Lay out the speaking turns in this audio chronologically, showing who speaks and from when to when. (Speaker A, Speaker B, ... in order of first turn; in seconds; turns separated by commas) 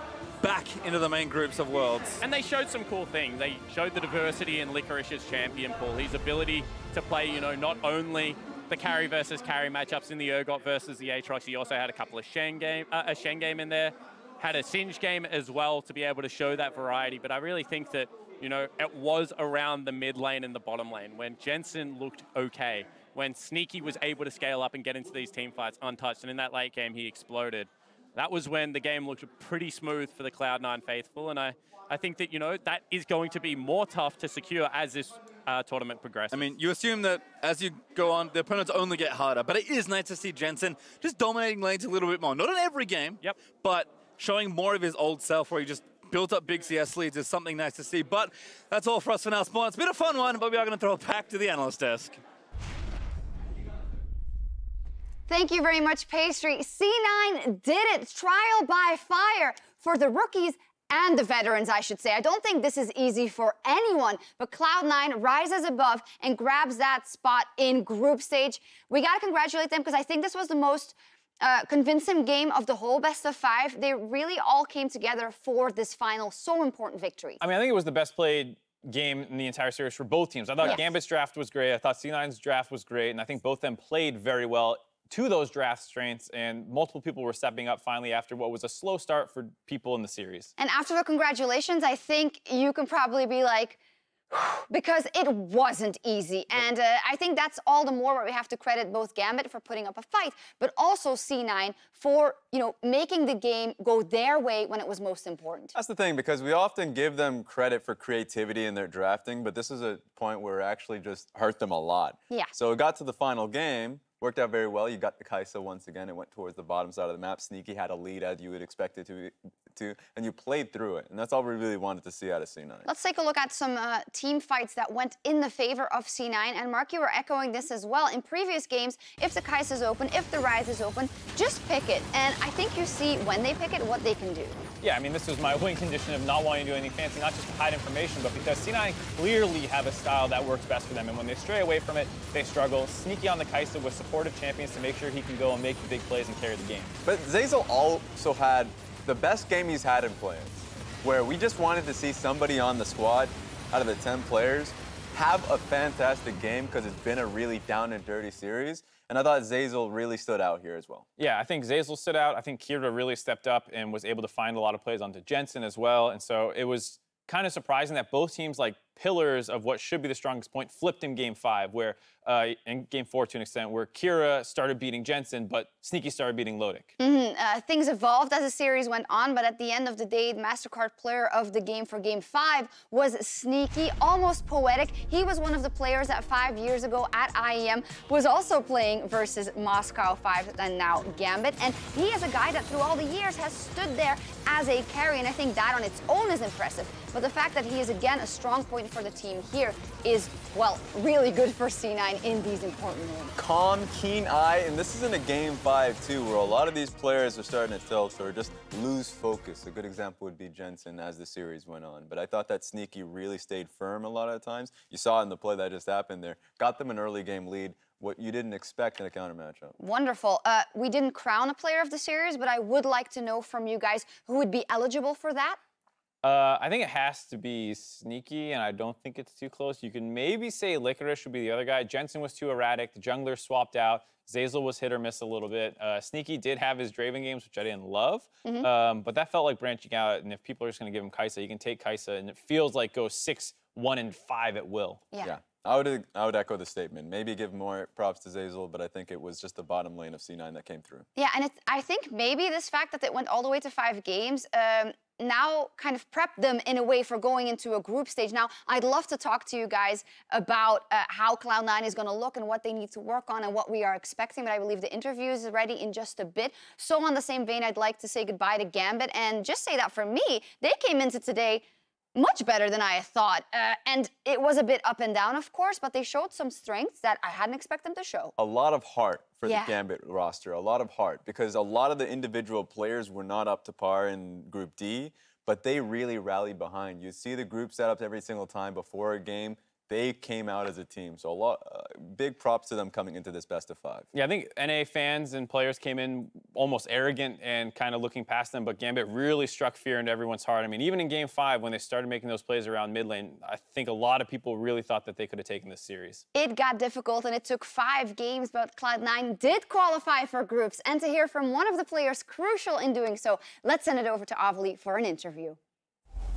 Speaker A: 0.4-2.2, Speaker B: 2.2-36.4, Speaker A: 36.3-52.2, Speaker C: 55.3-77.4, Speaker D: 77.4-90.5, Speaker C: 80.6-80.9, Speaker C: 90.6-93.8, Speaker C: 94.3-105.7, Speaker E: 105.7-122.9, Speaker C: 122.9-134.6, Speaker D: 134.8-147.0, Speaker E: 147.1-161.1, Speaker D: 161.2-176.9, Speaker C: 177.0-203.3, Speaker E: 203.4-219.7, Speaker C: 219.8-225.6, Speaker D: 226.2-245.1, Speaker E: 245.2-251.1, Speaker C: 251.2-271.6, Speaker C: 272.1-278.3, Speaker E: 278.4-294.1, Speaker C: 279.4-279.8, Speaker D: 294.1-306.2, Speaker C: 306.3-315.6